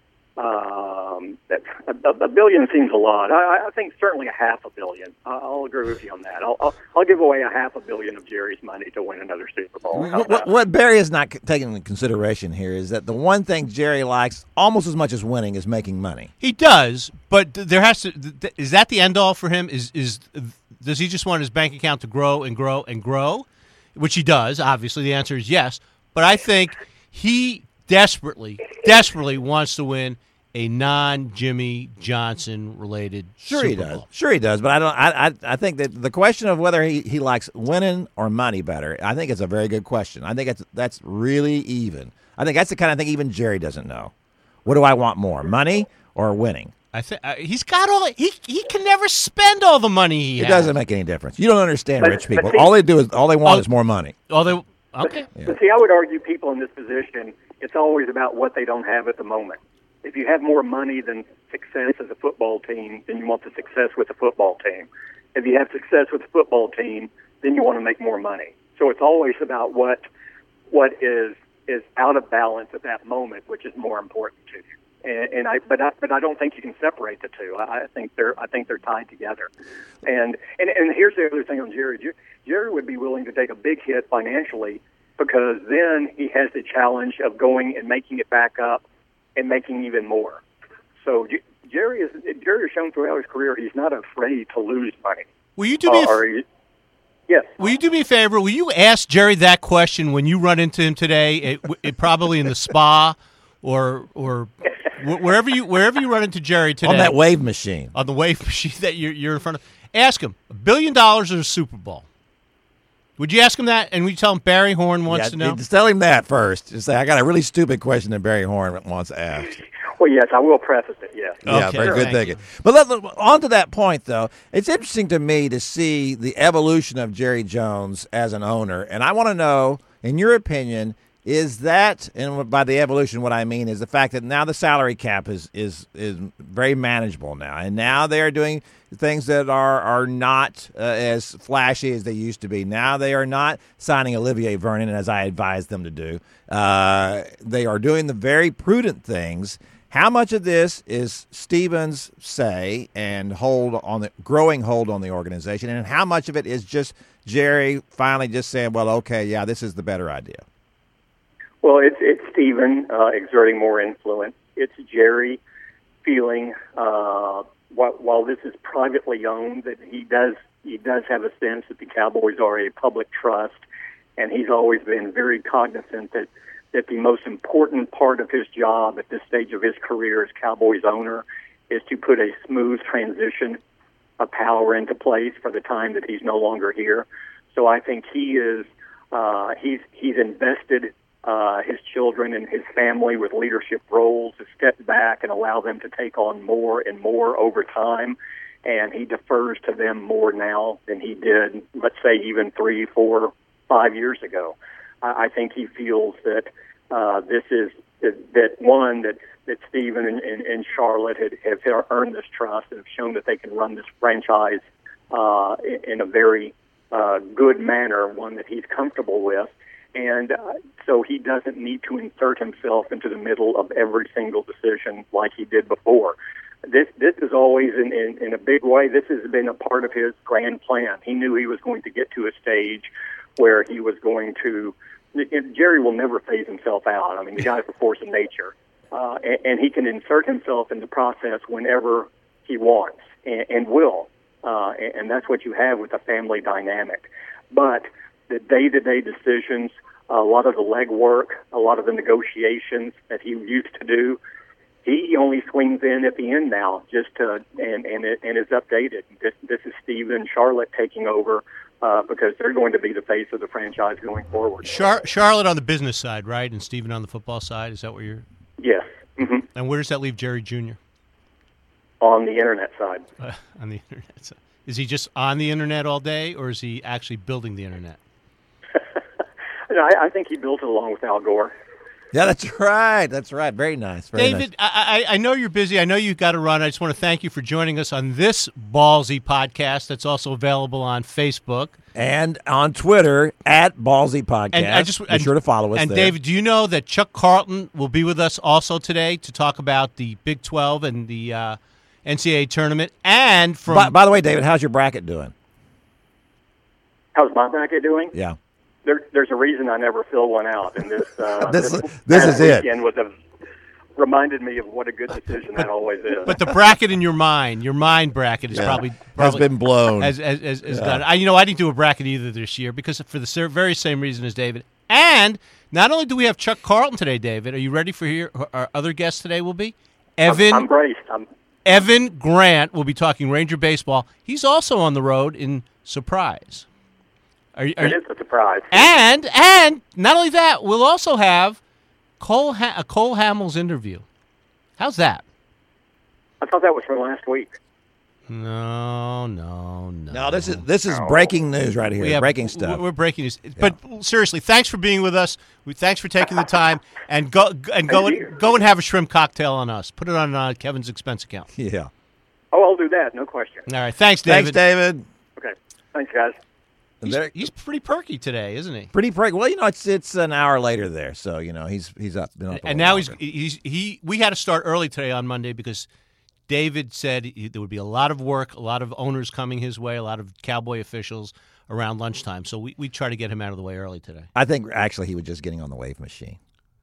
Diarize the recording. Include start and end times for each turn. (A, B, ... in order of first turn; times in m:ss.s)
0:00.4-0:10.5 A
0:09.9-0:16.3 B
0:16.4-0:34.0 C
0:33.4-0:44.1 B
0:44.6-0:46.7 B
0:46.9-0:50.7 C
0:50.4-0:54.1 B
0:52.0-0:52.7 A
0:54.3-0:55.3 C
0:55.4-1:10.0 A
1:10.7-1:19.5 A
1:20.0-1:28.8 A
1:29.4-1:30.4 A
1:31.0-1:35.2 A
1:35.6-1:36.2 C
1:35.9-1:36.4 A
1:37.3-1:37.5 A
1:37.6-1:47.1 C
1:46.8-1:47.9 B
1:47.9-1:52.0 C
1:53.2-1:55.6 C
1:55.1-1:59.6 B
2:00.0-2:02.1 A
2:01.4-2:40.4 B
2:01.5-2:02.4 C
2:41.6-2:45.4 A
2:46.0-2:53.6 A
2:54.2-3:03.6 A
3:04.2-4:14.2 A
4:14.8-4:24.7 A
4:24.6-4:28.2 C
4:28.6-4:29.4 A
4:29.5-4:30.8 C
4:32.0-4:33.0 A
4:33.2-4:38.0 C
4:39.7-4:41.5 A
4:42.1-4:44.5 B
4:44.1-4:51.8 C
4:51.9-4:56.1 B
4:54.5-5:03.9 C
5:03.7-5:05.3 B
5:07.1-5:08.1 A
5:08.8-5:13.1 A
5:11.4-5:12.7 B
5:14.0-5:16.3 A
5:16.2-5:30.7 C
5:18.5-5:20.1 B
5:20.6-5:21.0 B
5:30.2-5:31.2 A
5:31.6-5:36.7 C
5:37.6-5:38.0 C
5:37.8-5:38.9 A
5:38.7-5:41.6 C
5:42.2-5:44.0 C
5:44.8-5:45.2 C
5:46.4-5:47.5 A
5:48.3-5:50.6 C
5:50.1-5:52.8 B
5:52.0-6:01.5 C
5:57.9-5:58.3 A
6:01.5-6:01.9 B
6:02.5-6:03.6 A
6:03.7-6:04.6 C
6:04.2-6:05.0 B
6:05.4-6:06.4 A
6:07.0-6:08.9 C
6:07.0-6:07.5 B
6:08.9-6:13.2 B
6:12.5-6:15.9 C
6:16.5-6:24.3 C
6:24.3-6:26.4 B